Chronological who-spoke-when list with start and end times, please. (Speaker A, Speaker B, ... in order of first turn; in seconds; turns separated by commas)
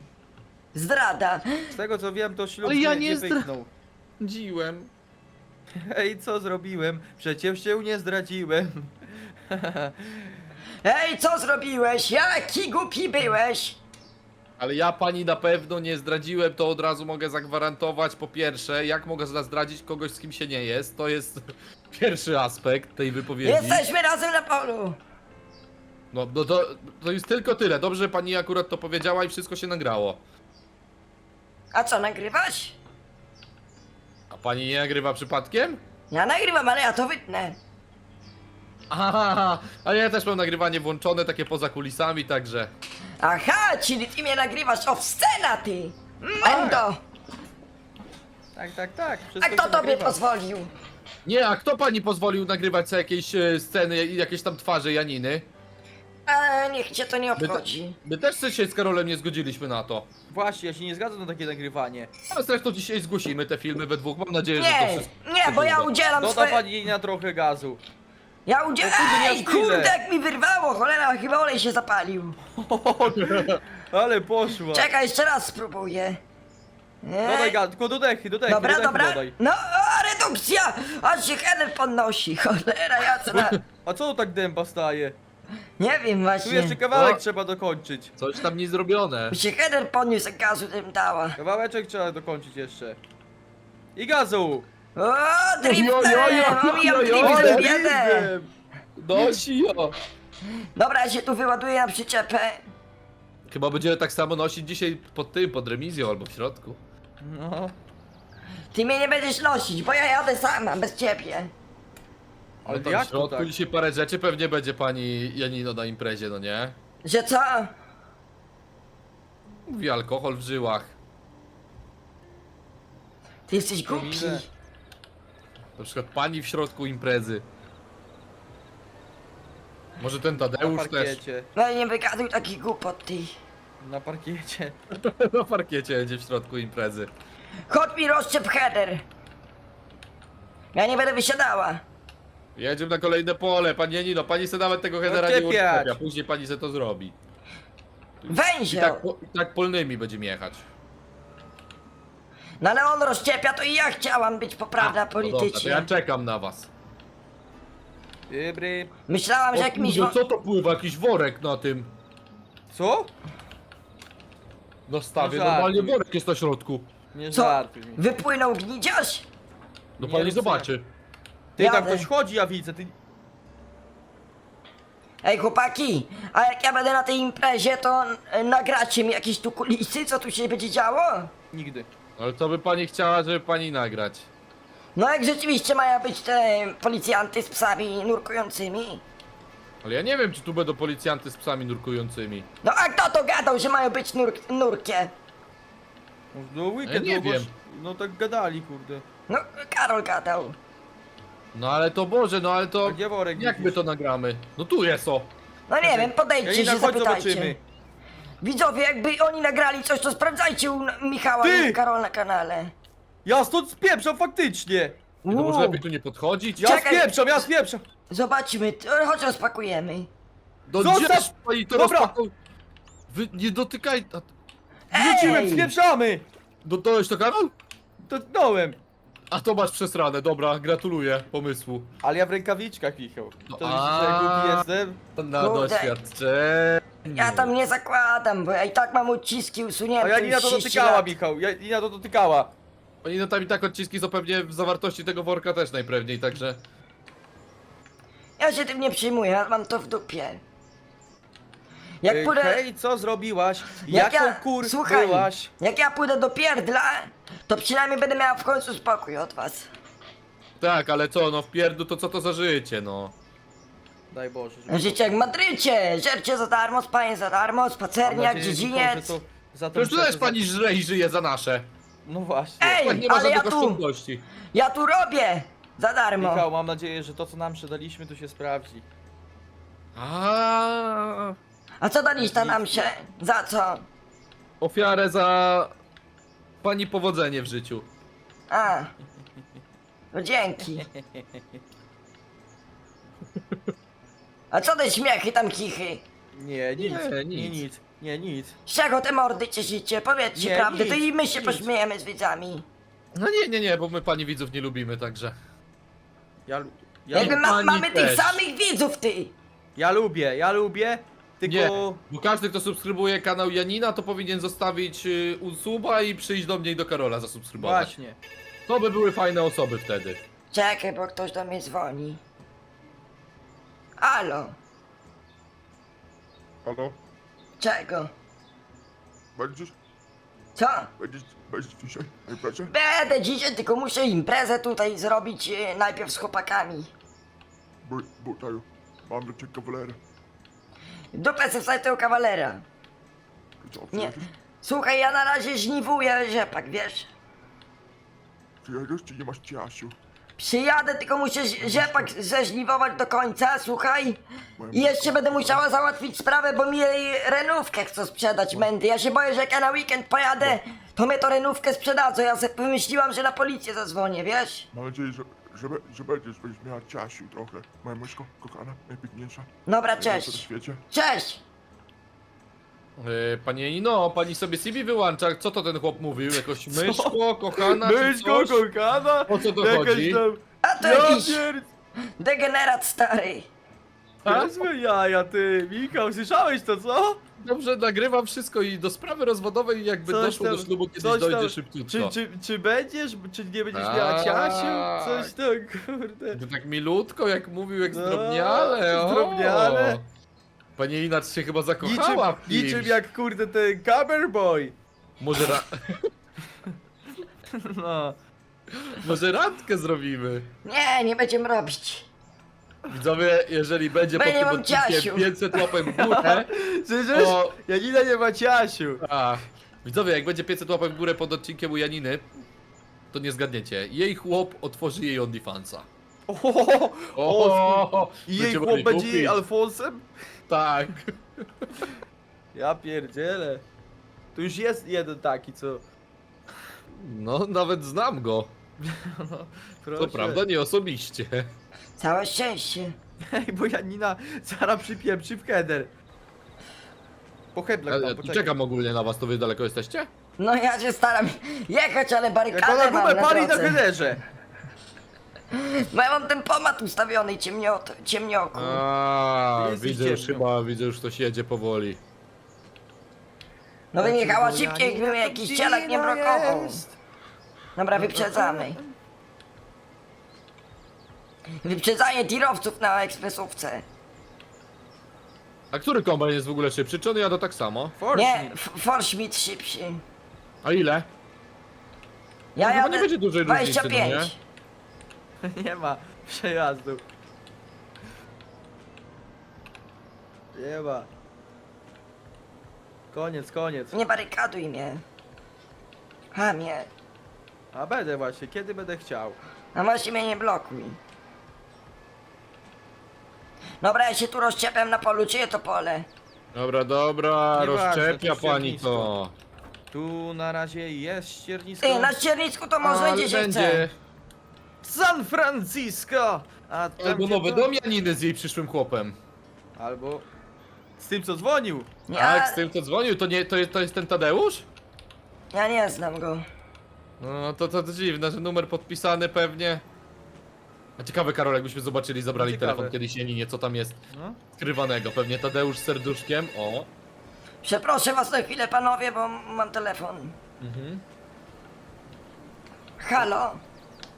Speaker A: 0.7-1.6, Speaker B: 1.7-3.7, Speaker C: 2.6-3.5, Speaker C: 4.2-4.9, Speaker B: 5.8-10.3, Speaker A: 10.8-13.8, Speaker C: 14.6-23.8, Speaker A: 23.4-25.0, Speaker C: 26.1-30.2, Speaker A: 31.7-32.8, Speaker C: 34.3-35.8, Speaker A: 36.1-37.6, Speaker C: 38.9-42.7, Speaker A: 43.2-47.0, Speaker B: 46.5-46.8, Speaker C: 46.5-46.8, Speaker B: 48.6-50.2, Speaker A: 49.4-50.7, Speaker C: 51.2-55.5, Speaker A: 56.3-58.0, Speaker C: 57.4-60.1, Speaker B: 60.3-62.1, Speaker C: 62.3-65.9, Speaker A: 64.6-66.6, Speaker B: 66.2-67.8, Speaker A: 68.5-72.4, Speaker B: 68.8-70.0, Speaker B: 72.6-74.9, Speaker C: 73.2-73.6, Speaker A: 74.7-76.2, Speaker A: 77.0-77.6, Speaker B: 77.2-79.3, Speaker A: 78.5-83.6, Speaker C: 83.3-83.6, Speaker B: 83.8-85.2, Speaker A: 85.8-86.8, Speaker B: 86.4-88.2, Speaker C: 86.9-87.2, Speaker C: 88.2-89.4, Speaker A: 89.3-91.4, Speaker B: 91.4-93.0, Speaker B: 94.0-94.7, Speaker A: 95.0-98.3, Speaker C: 95.6-97.7, Speaker B: 96.8-98.5, Speaker C: 99.0-100.0, Speaker A: 100.8-102.6, Speaker C: 103.5-106.8, Speaker B: 107.2-107.8, Speaker A: 108.7-111.5, Speaker B: 112.7-113.5, Speaker C: 112.7-116.8, Speaker A: 117.0-117.7, Speaker C: 119.7-120.9, Speaker A: 123.5-124.5, Speaker B: 123.9-124.4, Speaker C: 125.8-127.5, Speaker C: 130.0-131.2, Speaker B: 130.5-131.5, Speaker A: 131.6-133.3, Speaker B: 133.8-134.8, Speaker C: 134.9-137.1, Speaker A: 137.7-139.1, Speaker A: 140.8-141.8, Speaker C: 142.6-147.2, Speaker B: 145.1-146.0, Speaker C: 148.2-150.7, Speaker A: 148.3-149.0, Speaker A: 152.6-155.9, Speaker C: 154.8-156.7, Speaker B: 158.3-158.9, Speaker A: 159.1-160.2, Speaker C: 159.5-161.9, Speaker B: 162.7-163.1, Speaker C: 164.9-166.9, Speaker B: 165.2-166.0, Speaker B: 167.1-168.0, Speaker A: 167.3-169.3, Speaker C: 170.0-170.9, Speaker B: 170.0-170.7, Speaker B: 171.6-172.9, Speaker A: 171.6-172.1, Speaker A: 175.2-181.3, Speaker B: 181.5-181.9, Speaker C: 182.2-184.3, Speaker A: 185.0-189.0, Speaker C: 189.8-192.5, Speaker A: 192.6-195.1, Speaker B: 196.3-199.0, Speaker C: 196.8-197.5, Speaker A: 199.3-200.6, Speaker C: 201.5-205.3, Speaker B: 202.8-203.8, Speaker A: 205.7-207.6, Speaker B: 205.8-207.6, Speaker A: 208.4-212.7, Speaker B: 211.4-211.8, Speaker B: 213.2-215.0, Speaker A: 215.2-215.8, Speaker C: 215.3-216.8, Speaker B: 216.6-217.8, Speaker A: 216.6-217.2, Speaker A: 218.1-220.1, Speaker C: 220.7-222.3, Speaker B: 220.8-222.1, Speaker C: 223.1-224.3, Speaker A: 224.9-225.7, Speaker B: 224.9-226.3, Speaker C: 225.1-225.5, Speaker C: 226.6-227.5, Speaker B: 228.0-228.8, Speaker C: 229.3-231.9, Speaker B: 232.0-235.0, Speaker C: 233.5-237.5, Speaker A: 235.4-235.9, Speaker A: 237.1-241.1, Speaker B: 240.0-242.5, Speaker C: 243.0-246.6, Speaker A: 248.4-250.4, Speaker A: 252.0-252.6, Speaker B: 252.1-255.5, Speaker A: 253.9-259.7, Speaker C: 260.6-263.1, Speaker B: 264.1-265.2, Speaker A: 264.7-269.2, Speaker B: 268.1-270.4, Speaker C: 269.7-271.7, Speaker B: 272.1-272.8, Speaker A: 272.6-273.8, Speaker C: 272.8-274.2, Speaker A: 274.5-276.5, Speaker B: 276.2-278.9, Speaker C: 280.0-281.4, Speaker A: 281.8-283.9, Speaker B: 282.2-282.9, Speaker C: 284.6-285.7, Speaker C: 286.6-287.9, Speaker A: 288.5-288.9, Speaker A: 290.1-290.9, Speaker A: 294.5-296.0, Speaker B: 296.3-298.6, Speaker C: 296.8-297.6, Speaker A: 298.7-302.6, Speaker B: 300.4-301.7, Speaker C: 303.1-305.4, Speaker B: 306.5-307.4, Speaker C: 307.1-308.4, Speaker A: 307.1-309.3, Speaker B: 309.8-312.0, Speaker C: 311.4-317.9, Speaker B: 317.6-318.2, Speaker C: 318.7-320.2, Speaker A: 320.5-322.2, Speaker A: 324.0-324.6, Speaker D: 326.6-327.0, Speaker A: 327.6-328.1, Speaker D: 329.4-329.8, Speaker A: 330.6-330.9, Speaker D: 331.0-332.7, Speaker A: 332.7-336.9, Speaker D: 337.8-340.0, Speaker A: 341.1-342.6, Speaker D: 343.6-344.3, Speaker A: 343.9-347.1, Speaker D: 348.6-350.0, Speaker A: 350.4-354.2, Speaker D: 351.6-352.1, Speaker D: 354.6-355.6, Speaker A: 354.7-364.7, Speaker D: 364.7-370.8, Speaker A: 369.7-371.4, Speaker C: 373.0-378.6, Speaker B: 376.7-381.7, Speaker C: 379.3-380.2, Speaker A: 380.6-381.5, Speaker A: 382.2-383.5, Speaker C: 384.2-384.6, Speaker B: 384.2-387.2, Speaker C: 387.4-392.1, Speaker B: 390.1-396.4, Speaker C: 393.7-395.3, Speaker C: 396.3-400.1, Speaker B: 397.9-400.0, Speaker C: 400.8-403.0, Speaker B: 401.8-404.8, Speaker C: 405.2-406.1, Speaker B: 407.5-408.2, Speaker C: 409.0-410.5, Speaker A: 410.6-412.1, Speaker C: 412.9-416.5, Speaker A: 414.1-415.3, Speaker B: 415.7-419.0, Speaker C: 417.1-417.6, Speaker C: 419.0-422.3, Speaker C: 423.1-425.9, Speaker B: 426.3-430.1, Speaker C: 427.2-429.4, Speaker C: 430.5-431.7, Speaker B: 432.5-433.6, Speaker B: 434.4-435.8, Speaker C: 436.9-438.5, Speaker B: 438.8-440.4, Speaker C: 440.0-441.5, Speaker A: 442.0-443.0, Speaker B: 443.3-445.9, Speaker B: 447.5-448.5, Speaker C: 447.9-450.1, Speaker A: 450.4-453.8, Speaker B: 452.5-454.2, Speaker A: 455.5-458.8, Speaker C: 458.5-462.0, Speaker B: 459.6-460.4, Speaker A: 463.9-466.8, Speaker B: 464.0-466.9, Speaker A: 467.8-468.8, Speaker B: 467.9-468.9, Speaker A: 471.6-473.8, Speaker C: 475.7-477.9, Speaker B: 478.0-478.6, Speaker A: 478.1-480.0, Speaker C: 480.6-481.1, Speaker A: 482.6-484.4, Speaker C: 482.6-484.3, Speaker B: 485.4-487.0, Speaker B: 490.5-491.1, Speaker B: 493.1-494.0, Speaker A: 493.9-495.0, Speaker A: 496.3-496.9, Speaker B: 497.7-499.4, Speaker A: 499.8-501.0, Speaker A: 503.8-506.1, Speaker C: 506.5-509.3, Speaker B: 507.5-509.1, Speaker B: 509.9-512.1, Speaker A: 511.8-513.9, Speaker C: 512.8-513.9, Speaker B: 514.8-517.7, Speaker C: 517.0-519.2, Speaker B: 519.8-520.3, Speaker B: 521.0-521.9, Speaker A: 522.1-522.6, Speaker C: 522.1-524.7, Speaker A: 525.5-526.4, Speaker C: 527.2-529.8, Speaker C: 531.0-534.0, Speaker B: 532.4-533.0, Speaker B: 534.1-534.4, Speaker C: 534.6-536.9, Speaker A: 537.6-540.4, Speaker C: 540.6-541.0, Speaker A: 543.0-543.6